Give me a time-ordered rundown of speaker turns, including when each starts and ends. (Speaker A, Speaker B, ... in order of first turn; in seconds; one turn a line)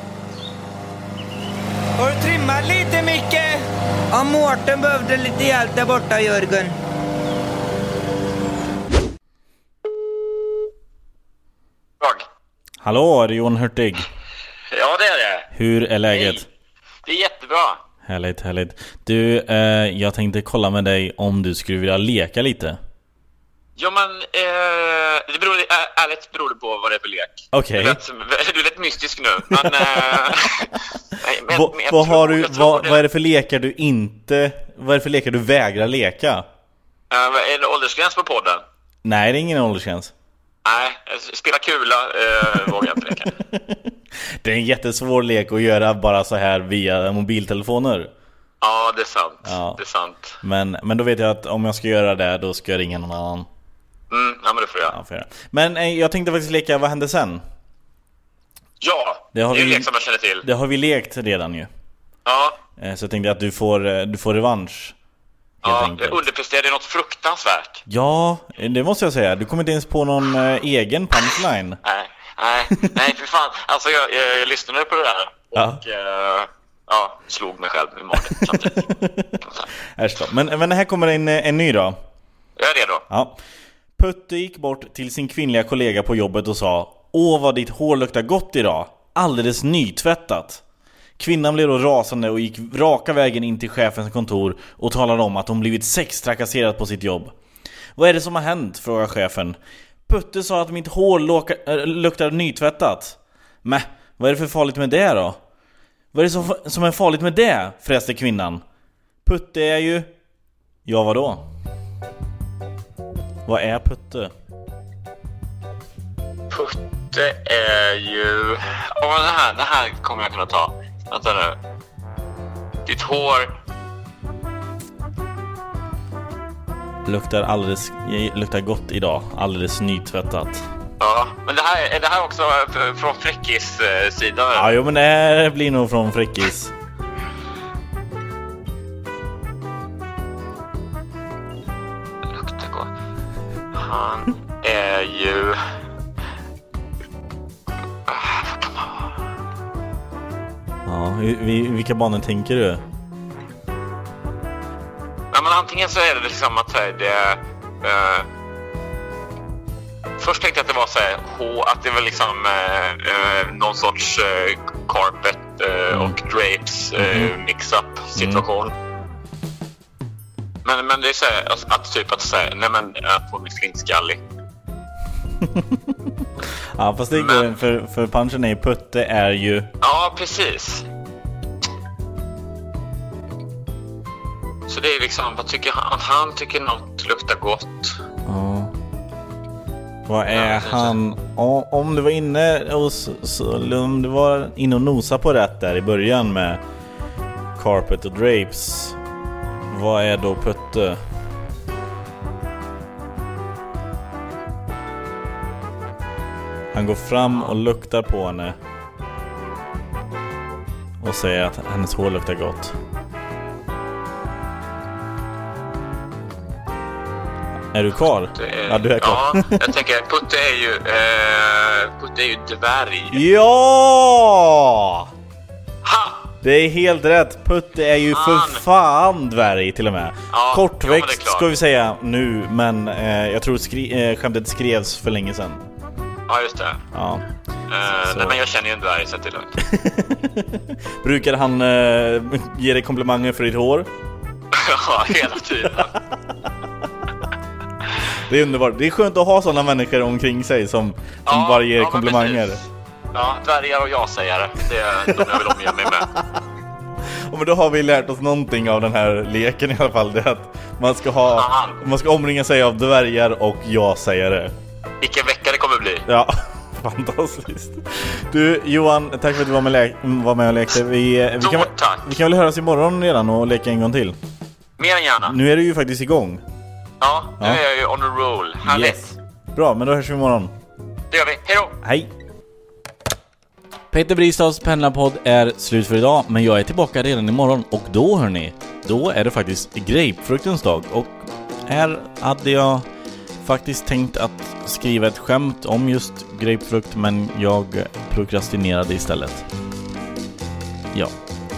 Speaker A: 2.0-6.8
Speaker B: 12.0-12.2
Speaker C: 12.8-14.1
Speaker B: 14.7-15.5
Speaker C: 15.5-16.5
Speaker B: 16.1-16.4
Speaker B: 17.0-17.8
Speaker C: 18.0-22.8
Speaker B: 23.8-33.0
Speaker C: 27.5-28.0
Speaker C: 31.5-36.5
Speaker B: 37.1-38.6
Speaker C: 39.0-40.1
Speaker B: 40.6-43.3
Speaker C: 43.5-43.8
Speaker C: 44.4-48.1
Speaker B: 48.6-50.4
Speaker C: 49.4-49.8
Speaker C: 50.4-53.5
Speaker B: 54.1-54.9
Speaker C: 54.9-57.4
Speaker B: 58.8-60.4
Speaker C: 59.3-59.9
Speaker C: 60.4-61.7
Speaker B: 62.2-62.6
Speaker C: 62.8-65.0
Speaker C: 65.6-66.2
Speaker B: 65.6-67.8
Speaker C: 67.9-71.8
Speaker B: 71.8-78.8
Speaker C: 75.5-75.8
Speaker C: 78.2-79.4
Speaker C: 80.0-82.0
Speaker B: 82.6-83.0
Speaker C: 83.1-83.4
Speaker C: 84.0-90.6
Speaker C: 91.2-97.3
Speaker C: 98.0-105.4
Speaker C: 106.1-108.6
Speaker C: 109.2-110.1
Speaker C: 110.8-111.4
Speaker C: 113.5-114.3
Speaker B: 116.5-121.6
Speaker B: 122.8-123.5
Speaker C: 127.0-130.7
Speaker B: 131.0-134.7
Speaker C: 134.5-136.7
Speaker B: 142.3-142.9
Speaker B: 143.7-145.6
Speaker B: 148.1-149.1
Speaker C: 150.8-152.8
Speaker B: 155.3-158.2
Speaker B: 160.2-168.7
Speaker C: 165.9-166.2
Speaker C: 167.0-167.3
Speaker C: 168.1-168.4
Speaker B: 170.6-174.2
Speaker C: 176.7-179.7
Speaker B: 177.1-177.6
Speaker B: 179.8-180.8
Speaker B: 184.7-188.0
Speaker C: 188.2-188.7
Speaker C: 190.1-196.6
Speaker B: 190.3-190.9
Speaker C: 197.6-199.0
Speaker C: 199.7-201.0
Speaker C: 206.7-208.6
Speaker C: 211.0-212.7
Speaker C: 217.7-219.6
Speaker B: 218.3-223.2
Speaker C: 223.1-225.1
Speaker B: 225.8-226.3
Speaker C: 226.4-235.6
Speaker B: 228.1-228.6
Speaker B: 230.3-231.5
Speaker B: 236.3-236.8
Speaker C: 236.9-237.2
Speaker B: 237.7-239.6
Speaker C: 238.1-238.4
Speaker C: 239.6-243.9
Speaker B: 244.5-245.9
Speaker C: 248.1-252.6
Speaker B: 251.2-252.5
Speaker B: 253.1-256.1
Speaker C: 257.3-264.5
Speaker B: 261.3-261.8
Speaker B: 265.0-266.0
Speaker C: 266.1-274.1
Speaker B: 271.4-272.1
Speaker B: 274.8-275.4
Speaker C: 275.2-276.4
Speaker B: 277.0-279.0
Speaker C: 278.6-280.5
Speaker B: 281.1-281.7
Speaker C: 281.8-282.1
Speaker C: 283.9-292.9
Speaker C: 293.4-299.4